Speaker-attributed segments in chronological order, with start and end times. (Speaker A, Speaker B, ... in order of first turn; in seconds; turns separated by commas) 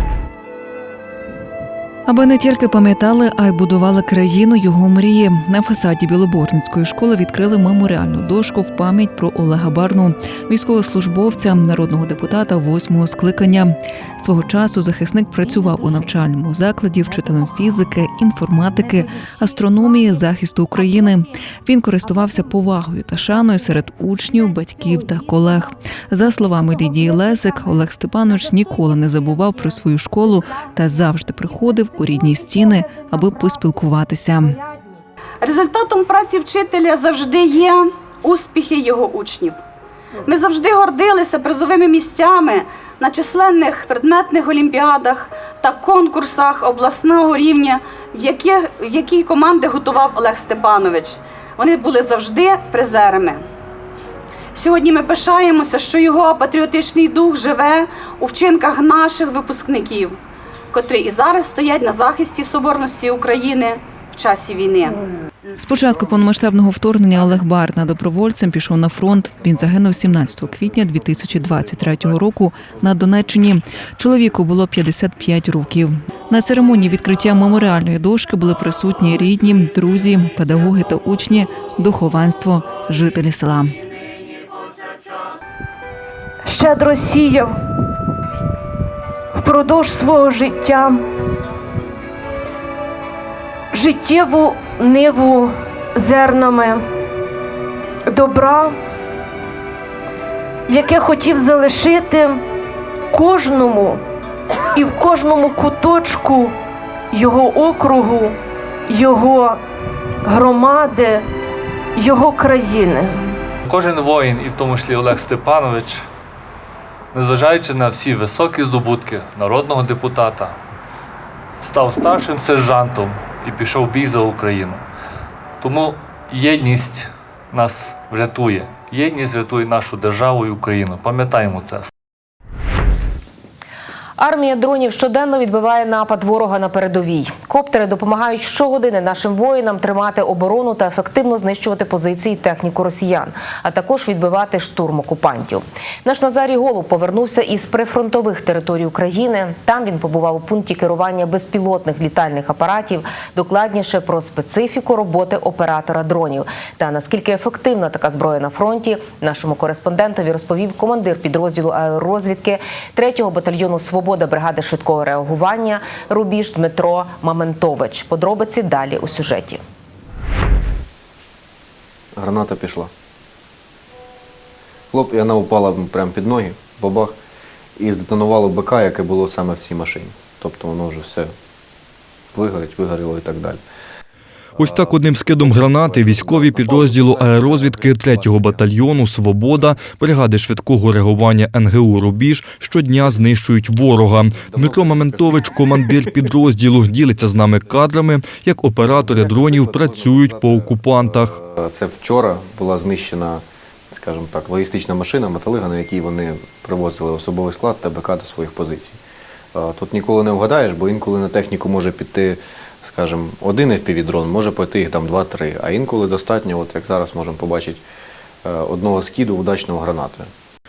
Speaker A: 2.0-34.6, Speaker B: 35.4-39.6, Speaker B: 40.2-53.4, Speaker B: 54.5-60.2, Speaker B: 60.7-65.0, Speaker A: 65.6-83.8, Speaker C: 86.4-87.5, Speaker C: 89.3-91.0, Speaker C: 93.7-96.8, Speaker C: 98.1-98.8, Speaker C: 100.7-102.4, Speaker C: 103.1-104.0, Speaker C: 104.7-106.5, Speaker C: 107.1-108.4, Speaker C: 108.9-109.6, Speaker C: 110.2-111.2, Speaker C: 112.0-113.2, Speaker D: 113.7-116.0, Speaker D: 117.1-120.6, Speaker D: 121.6-124.8, Speaker D: 125.6-131.9, Speaker E: 134.2-169.6, Speaker F: 172.2-172.9, Speaker F: 174.9-177.1, Speaker F: 177.8-181.3, Speaker F: 182.3-183.6, Speaker G: 184.6-201.4, Speaker F: 184.6-188.6, Speaker F: 194.5-195.4, Speaker F: 198.9-209.0, Speaker F: 209.5-217.8, Speaker F: 218.4-220.3